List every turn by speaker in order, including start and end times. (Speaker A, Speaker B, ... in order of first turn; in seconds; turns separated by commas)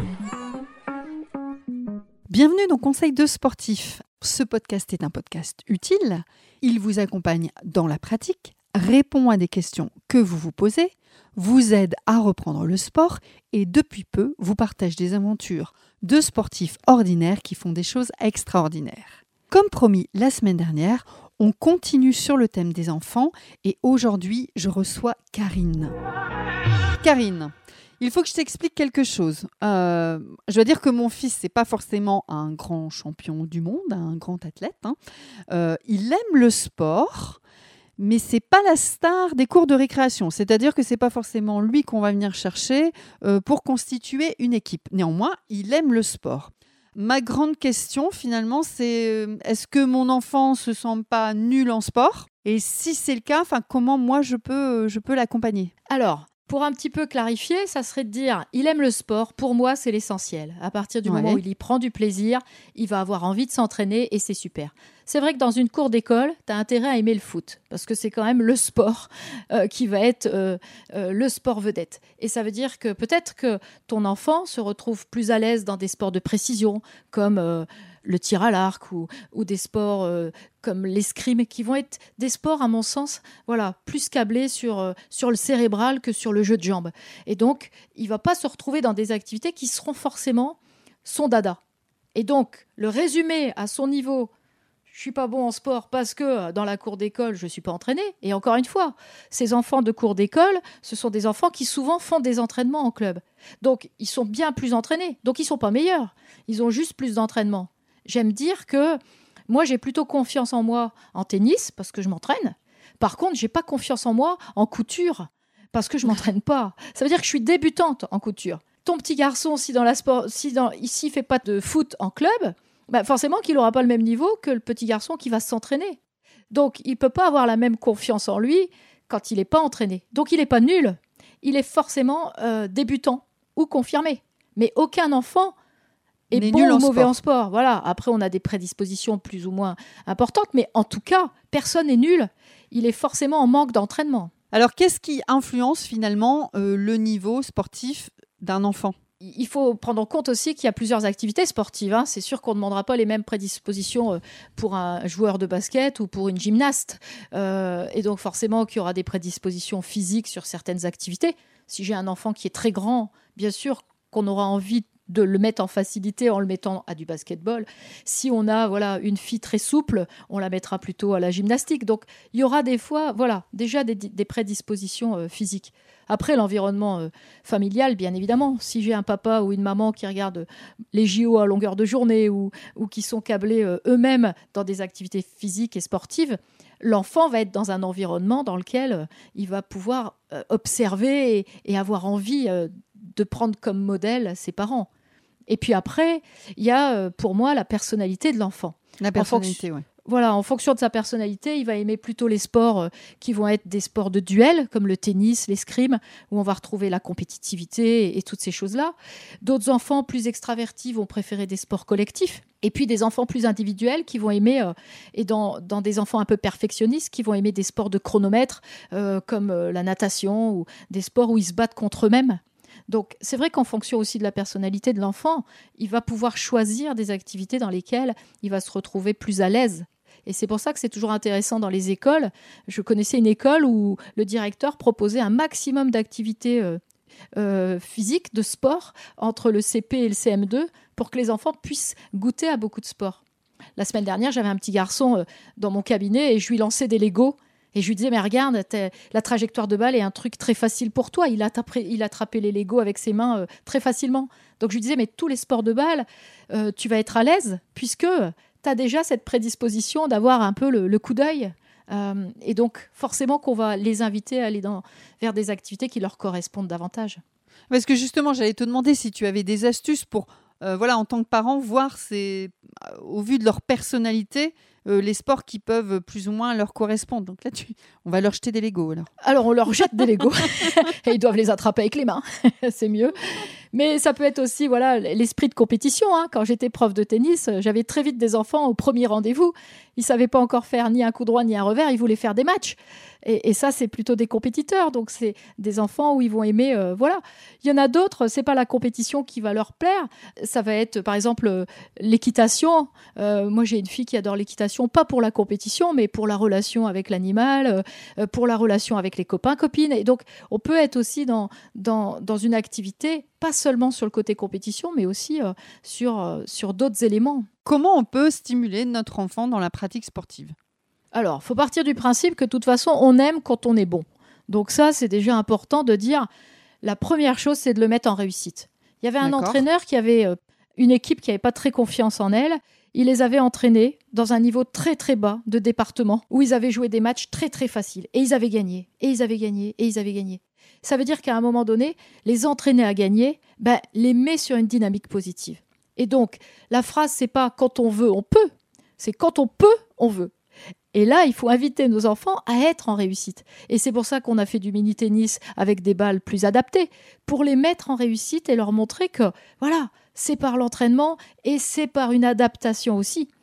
Speaker A: 2.3-25.9, Speaker A: 27.0-35.0, Speaker A: 35.5-37.4, Speaker A: 38.0-55.7, Speaker B: 55.9-91.6, Speaker A: 61.1-61.4, Speaker B: 92.2-94.3, Speaker B: 94.9-126.0, Speaker B: 126.5-135.5, Speaker B: 136.3-144.3, Speaker A: 136.3-137.1, Speaker A: 144.5-148.9, Speaker B: 149.2-194.9, Speaker B: 195.5-236.8, Speaker A: 199.0-199.8, Speaker B: 237.4-243.2, Speaker B: 243.8-267.2, Speaker A: 267.7-279.1, Speaker B: 279.2-283.2, Speaker B: 283.7-317.5, Speaker A: 317.7-320.6, Speaker B: 321.1-326.3, Speaker B: 326.8-350.3, Speaker A: 329.2-329.6, Speaker B: 350.9-363.3